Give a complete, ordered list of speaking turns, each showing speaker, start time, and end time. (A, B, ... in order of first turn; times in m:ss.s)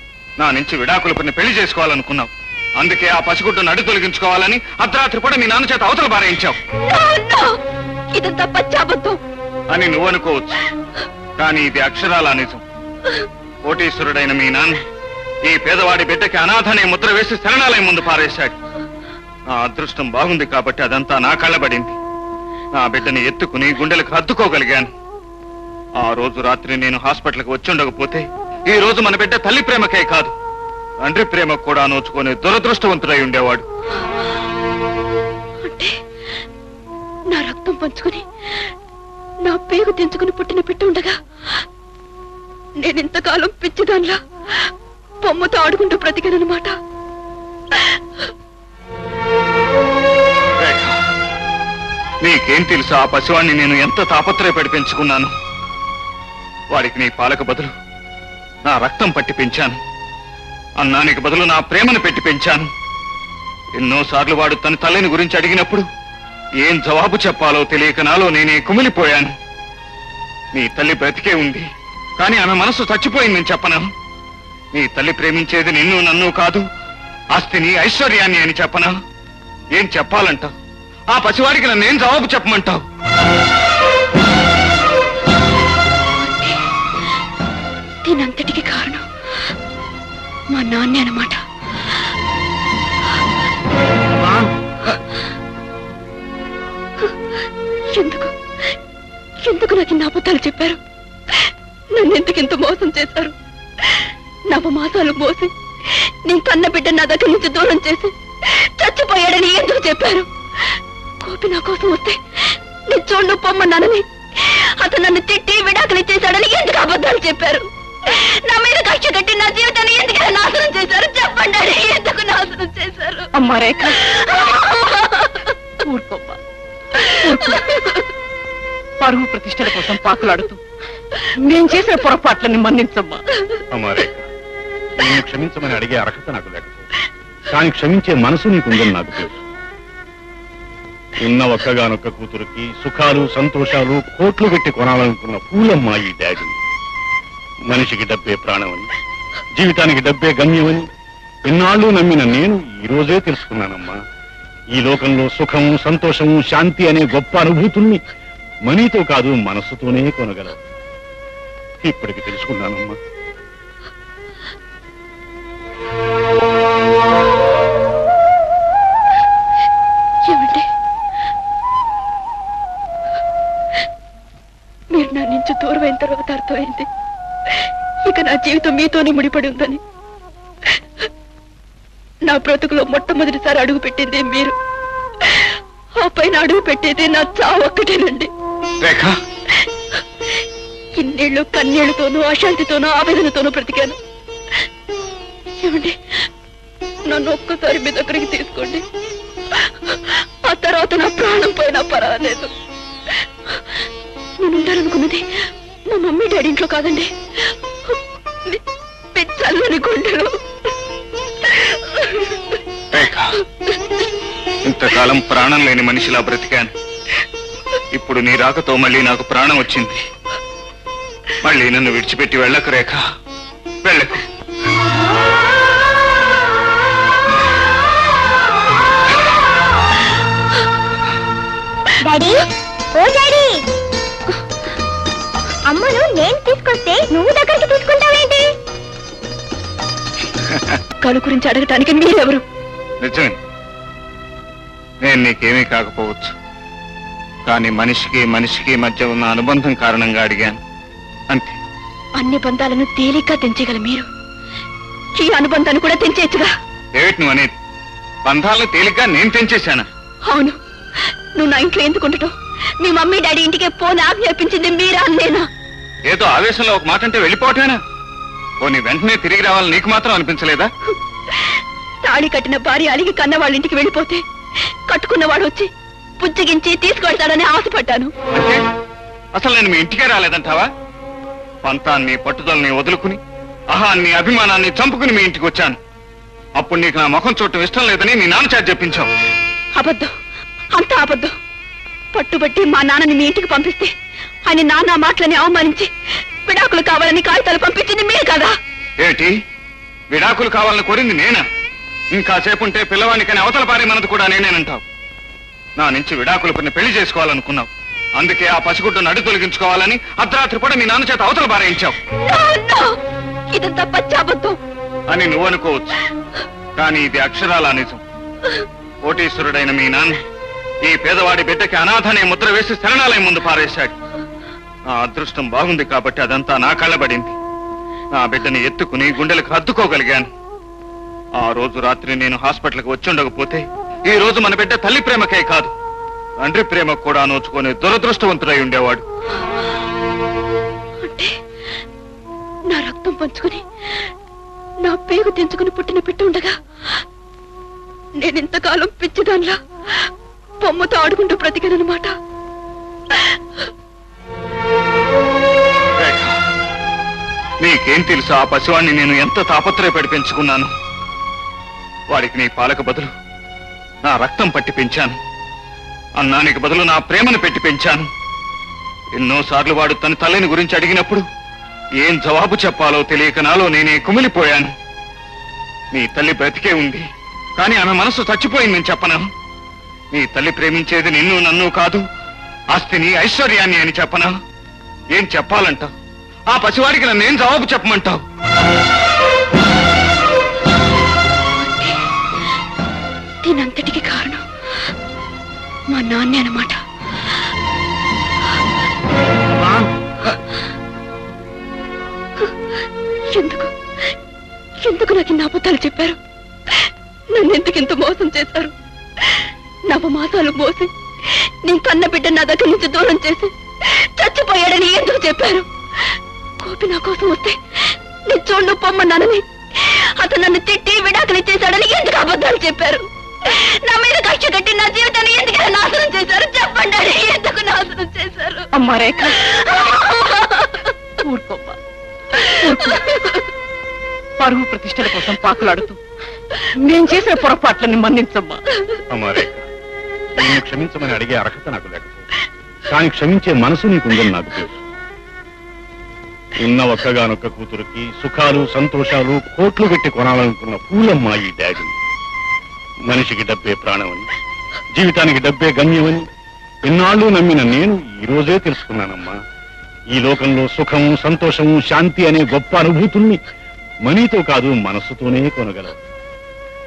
0:00.4-0:06.6 A
0:06.8-0:07.6 B
0:08.1-0:09.2 B
0:09.7-0:10.6 A
0:11.4-0:12.6 A
0:13.6-0:14.8 A
0:15.5-0:18.6 A
0:19.5-0:22.0 A
0:22.8-0:24.9 A
0:26.0-0:30.3 A
0:31.0-0:33.7 A
0:35.6-0:35.9 B
0:37.3-0:38.2 B
0:39.4-0:41.1 B
0:42.8-0:44.2 B
0:45.2-0:46.7 B
0:50.6-0:51.0 A
0:52.2-0:55.3 A
0:56.7-0:57.7 A
0:58.7-0:59.8 A
1:00.8-1:02.7 A
1:03.8-1:05.9 A
1:06.6-1:09.3 A
1:10.5-1:11.7 A
1:12.2-1:13.8 A
1:14.7-1:16.6 A
1:17.3-1:18.9 A
1:19.7-1:20.5 A
1:21.1-1:22.8 A
1:26.2-1:26.6 B
1:28.0-1:29.0 B
1:30.5-1:31.4 B
1:37.9-1:38.3 B
1:39.4-1:40.8 B
1:41.3-1:50.3 B
1:51.2-1:52.2 B
1:52.9-2:03.3 B
2:03.4-2:04.0 C
2:04.0-2:05.5 B
2:05.9-2:06.4 C
2:07.2-2:07.7 C
2:09.0-2:10.6 C
2:11.4-2:13.2 C
2:13.7-2:14.2 D
2:15.0-2:16.9 D
2:17.5-2:19.4 D
2:21.2-2:26.6 D
2:27.7-2:28.9 D
2:29.6-2:30.8 D
2:31.5-2:34.0 D
2:34.8-2:38.0 D
2:38.7-2:40.6 D
2:41.8-2:43.0 D
2:50.3-2:50.6 B
2:54.9-2:56.9 B
2:58.0-2:59.8 B
3:02.2-3:04.6 B
3:05.2-3:08.3 B
3:08.8-3:09.1 A
3:11.0-3:14.0 B
3:15.6-3:16.0 B
3:17.1-3:18.8 B
3:19.5-3:22.5 B
3:24.4-3:25.2 B
3:25.9-3:27.1 B
3:29.1-3:30.4 B
3:31.4-3:32.6 B
3:32.9-3:33.4 A
3:34.7-3:36.7 A
3:37.9-3:40.0 A
3:41.4-3:43.0 A
3:43.8-3:44.2 A
3:52.0-3:53.6 E
3:55.7-3:58.5 E
4:00.5-4:00.8 A
4:01.0-4:02.4 B
4:03.0-4:03.4 A
4:05.0-4:06.3 A
4:07.5-4:10.6 A
4:11.3-4:11.6 A
4:12.2-4:14.0 B
4:15.2-4:16.5 B
4:17.0-4:17.5 A
4:18.2-4:19.9 A
4:20.3-4:20.6 B
4:21.4-4:25.4 B
4:26.1-4:27.8 A
4:28.6-4:30.7 A
4:32.0-4:34.2 B
4:34.9-4:35.7 B
4:36.2-4:38.1 B
4:38.4-4:38.6 A
4:39.4-4:40.7 A
4:41.6-4:43.2 A
4:43.7-4:45.8 A
4:46.6-4:49.1 A
4:49.8-4:50.1 B
4:50.8-4:51.3 B
4:52.1-4:53.9 B
4:54.4-4:55.9 B
4:56.4-4:58.5 B
4:59.0-4:59.3 A
5:00.1-5:01.4 A
5:02.1-5:04.8 A
5:05.8-5:12.0 A
5:12.2-5:12.9 B
5:13.5-5:14.6 B
5:15.1-5:16.0 A
5:16.8-5:18.0 A
5:19.0-5:20.2 A
5:20.8-5:23.9 A
5:24.9-5:27.4 A
5:28.1-5:30.3 A
5:31.4-5:35.7 A
5:36.4-5:39.0 A
5:41.0-5:41.3 B
5:42.7-5:43.6 B
5:44.8-5:46.5 B
5:48.2-5:49.6 B
5:50.6-5:52.1 B
5:56.0-5:56.3 A
5:57.6-6:00.7 A
6:02.1-6:03.1 A
6:04.1-6:05.2 A
6:06.2-6:08.1 A
6:09.1-6:11.2 A
6:12.0-6:14.7 A
6:15.9-6:17.1 A
6:17.6-6:19.2 A
6:20.1-6:22.0 A
6:22.7-6:24.3 A
6:25.1-6:25.9 A
6:26.5-6:28.2 A
6:31.6-6:32.0 B
6:33.4-6:34.4 B
6:35.9-6:36.8 B
6:43.3-6:43.7 B
6:44.8-6:46.2 B
6:46.7-6:55.7 B
6:56.6-6:57.6 B
6:58.3-7:08.6 B
7:08.8-7:09.4 C
7:09.3-7:10.9 B
7:11.2-7:11.8 C
7:12.6-7:13.1 C
7:14.4-7:16.0 C
7:16.8-7:18.6 C
7:19.1-7:19.6 D
7:20.4-7:22.2 D
7:22.9-7:24.8 D
7:26.6-7:32.0 D
7:33.1-7:34.3 D
7:34.9-7:36.3 D
7:36.8-7:39.4 D
7:40.1-7:43.4 D
7:44.0-7:46.0 D